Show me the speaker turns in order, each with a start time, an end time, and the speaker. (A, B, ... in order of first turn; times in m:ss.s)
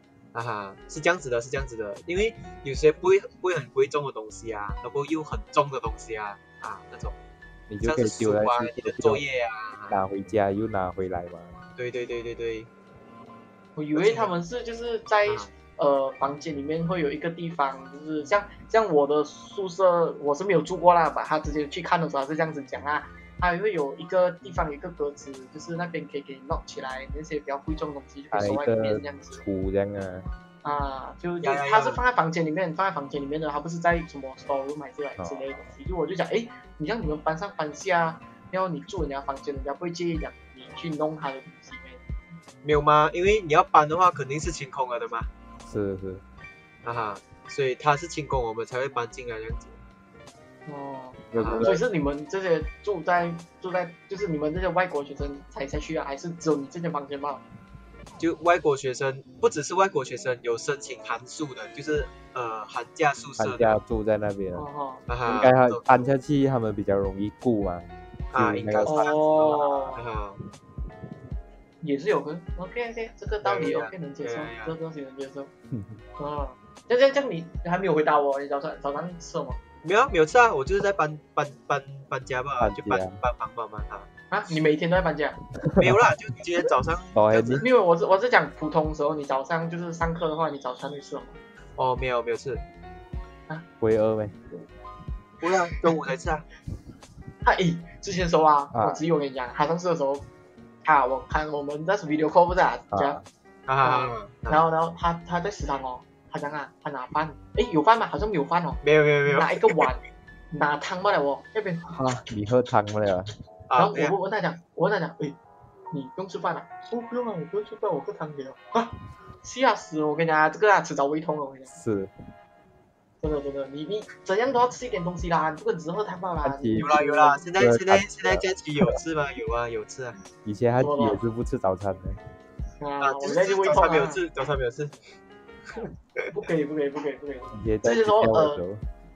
0:00.3-0:07.2 A
0:07.7-0:09.2 B
0:07.8-0:10.0 A
0:09.9-0:11.6 B
0:11.8-0:12.7 A
0:13.8-0:29.4 C
0:14.0-0:14.3 A
0:28.3-0:30.3 B
0:30.6-0:42.0 C
0:31.4-0:32.0 A
0:35.2-0:35.5 B
0:42.6-0:45.3 A
0:45.6-0:46.2 B
0:46.8-0:49.8 A
0:50.7-0:57.4 C
0:51.3-0:51.8 B
0:51.4-0:51.8 A
0:58.2-1:03.8 A
1:03.4-1:04.7 B
1:04.6-1:05.1 C
1:05.1-1:05.9 A
1:05.3-1:09.1 B
1:08.3-1:10.4 A
1:08.9-1:10.0 C
1:11.8-1:15.5 C
1:13.4-1:14.7 A
1:15.7-1:16.0 B
1:16.2-1:19.6 C
1:19.8-1:24.1 A
1:22.6-1:23.2 B
1:24.3-1:25.4 C
1:25.6-1:26.0 B
1:25.8-1:27.6 A
1:27.2-1:27.6 B
1:27.6-1:31.4 C
1:31.8-1:32.6 A
1:33.8-1:34.4 B
1:35.4-1:36.5 A
1:37.4-1:40.3 C
1:38.7-1:39.0 B
1:40.8-1:43.2 C
1:42.9-1:43.2 B
1:43.7-1:44.6 A
1:43.8-1:52.0 C
1:48.8-1:49.9 A
1:51.9-1:53.3 B
1:53.7-1:54.2 A
1:53.8-1:55.4 C
1:55.9-2:01.7 C
2:01.7-2:02.1 B
2:03.2-2:07.5 C
2:06.4-2:07.0 B
2:06.8-2:10.2 A
2:07.6-2:09.0 B
2:10.4-2:12.2 B
2:10.8-2:11.2 C
2:12.8-2:14.2 C
2:13.0-2:15.0 A
2:16.3-2:18.6 C
2:17.5-2:18.8 B